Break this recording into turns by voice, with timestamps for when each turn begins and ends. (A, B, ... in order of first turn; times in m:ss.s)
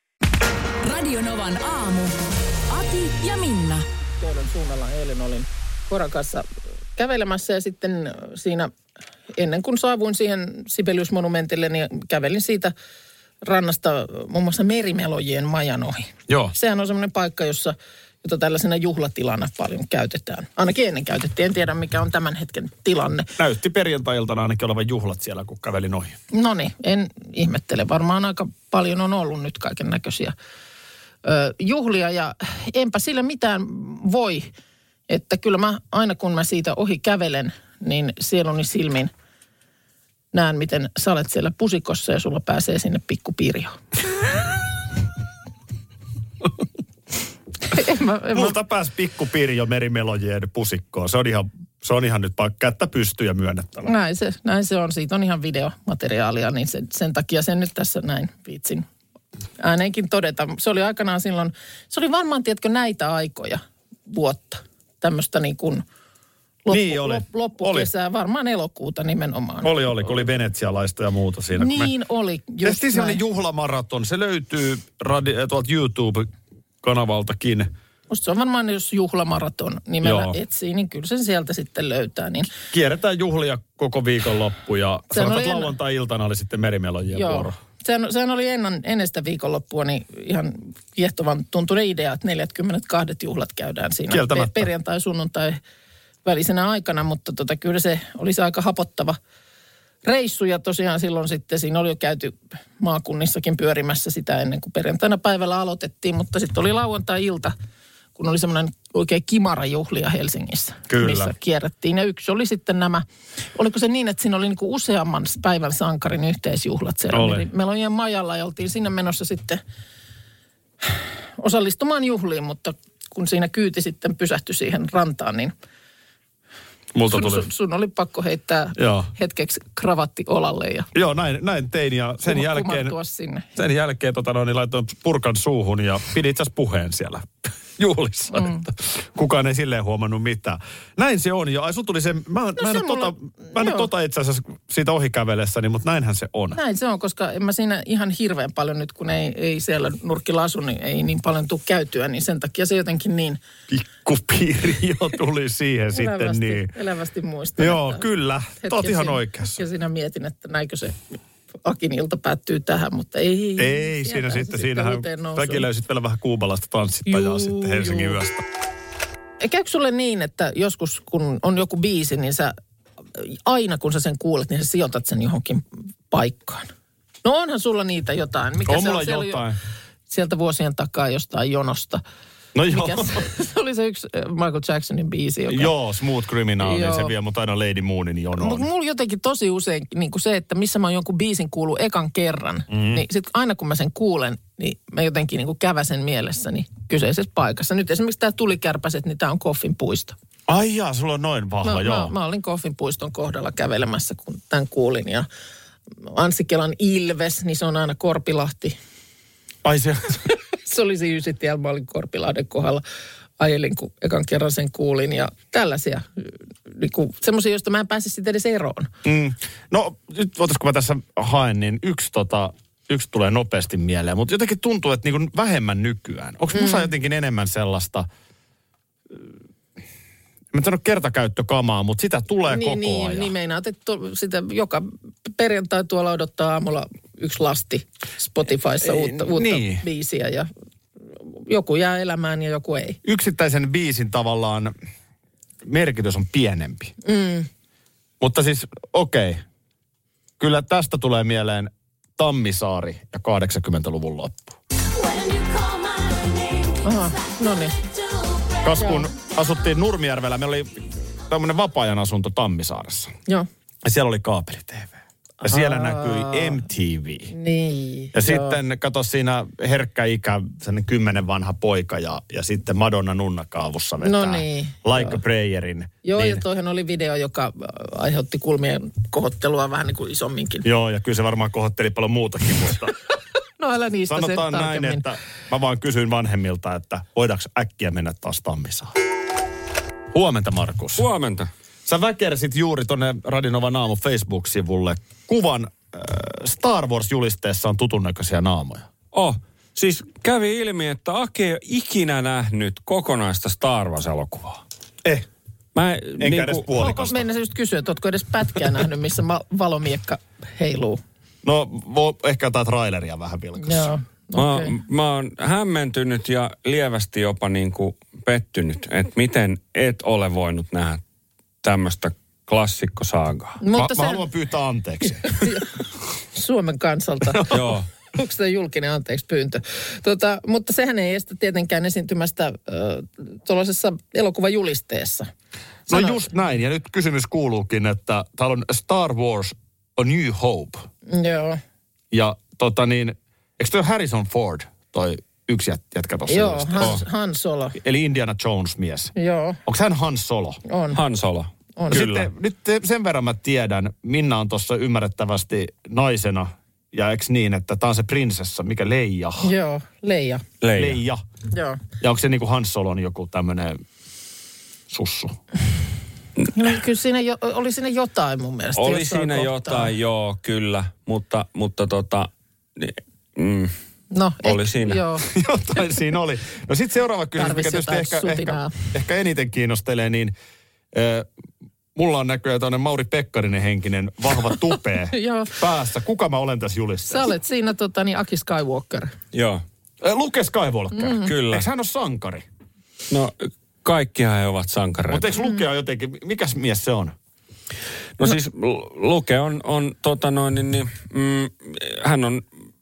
0:00.8-0:02.2 A
0:02.7-0:03.8 A
0:04.2-0:08.7 B
0:09.3-0:12.7 B
0:13.4-0:23.3 B
0:16.3-0:16.6 C
0:23.4-0:26.2 C
0:26.3-0:30.3 B
0:31.2-0:34.5 B
0:35.1-0:39.1 B
0:40.3-0:43.7 B
0:47.7-0:48.6 B
0:48.3-0:53.9 C
0:53.8-0:58.9 B
0:59.6-1:05.8 B
1:06.6-1:09.8 B
1:06.7-1:07.9 C
1:09.6-1:11.9 C
1:11.6-1:13.2 B
1:12.6-1:16.3 C
1:16.8-1:17.7 C
1:18.1-1:22.5 B
1:20.0-1:20.4 C
1:22.7-1:27.6 C
1:25.1-1:25.7 B
1:27.1-1:35.6 B
1:34.1-1:34.7 C
1:36.2-1:39.2 B
1:40.1-1:47.5 B
1:48.2-1:53.0 B
1:50.9-1:51.3 C
1:53.6-1:59.6 B
1:57.1-1:57.5 C
2:01.4-2:05.5 B
2:06.9-2:07.5 C
2:07.1-2:10.9 B
2:08.8-2:09.1 C
2:10.9-2:13.0 C
2:12.3-2:13.5 B
2:13.6-2:26.6 C
2:18.3-2:18.6 B
2:22.6-2:23.9 B
2:26.5-2:33.4 B
2:33.7-2:36.7 C
2:35.9-2:38.0 B
2:37.6-2:39.6 C
2:38.6-2:45.7 B
2:43.6-2:48.4 C
2:47.1-2:48.2 B
2:49.4-2:52.5 B
2:53.2-2:56.7 B
2:57.2-2:59.4 B
2:58.7-2:59.6 C
3:00.1-3:02.0 B
3:02.6-3:03.2 C
3:02.7-3:05.7 B
3:05.5-3:08.6 C
3:06.6-3:07.1 B
3:08.4-3:20.2 B
3:12.7-3:13.0 C
3:20.5-3:22.1 C
3:21.6-3:25.3 B
3:26.0-3:28.8 B
3:29.6-3:30.2 C
3:30.6-3:32.8 B
3:33.4-3:38.9 B
3:39.0-3:48.1 C
3:46.5-3:46.9 B
3:50.5-3:53.3 C
3:52.5-4:00.5 B
3:58.8-3:59.8 C
4:01.1-4:03.0 B
4:03.0-4:04.7 C
4:05.6-4:06.9 C
4:07.0-4:07.5 B
4:08.2-4:09.4 C
4:10.4-4:14.6 C
4:15.0-4:16.8 A
4:16.8-4:17.8 B
4:18.2-4:18.8 A
4:18.6-4:20.7 C
4:18.8-4:19.1 B
4:21.3-4:23.1 C
4:23.8-4:27.3 C
4:25.4-4:26.6 B
4:27.3-4:28.6 B
4:28.1-4:36.4 C
4:34.0-4:35.2 B
4:36.0-4:40.7 B
4:40.6-4:43.0 C
4:43.6-4:45.0 B
4:44.1-4:48.9 C
4:50.1-4:51.0 C
4:51.0-4:51.5 D
4:51.9-4:58.9 C
4:59.1-5:04.6 D
5:05.8-5:06.7 D
5:06.2-5:07.3 C
5:06.8-5:11.0 B
5:11.4-5:13.9 C
5:13.6-5:14.7 B
5:14.3-5:21.0 D
5:21.6-5:23.6 D
5:23.6-5:24.2 B
5:23.8-5:25.5 C
5:25.2-5:25.7 B
5:26.3-5:27.6 B
5:27.5-5:27.9 D
5:28.1-5:35.3 B
5:35.9-5:36.3 B
5:35.9-5:40.8 C
5:41.1-5:41.6 B
5:42.1-5:47.0 C
5:46.3-5:47.8 B
5:47.8-5:49.1 C
5:49.2-5:49.6 B
5:49.6-5:50.6 C
5:50.7-5:51.0 B
5:50.9-5:52.3 D
5:51.8-5:52.0 B
5:51.9-5:59.5 C
5:59.4-6:00.4 B
6:00.6-6:01.0 D
6:00.7-6:01.2 C
6:01.5-6:01.8 B
6:02.0-6:03.8 C
6:04.9-6:05.4 C
6:06.6-6:09.9 B
6:08.8-6:13.7 D
6:14.1-6:15.3 B
6:14.4-6:15.0 D
6:15.3-6:20.3 C
6:17.4-6:18.8 B
6:20.9-6:21.3 C
6:22.0-6:27.3 C
6:25.1-6:25.6 B
6:27.1-6:29.1 B
6:29.3-6:29.6 D
6:30.0-6:32.4 C
6:30.9-6:31.3 B
6:31.2-6:31.6 D
6:33.1-6:35.3 D
6:35.1-6:37.1 C
6:38.2-6:42.4 D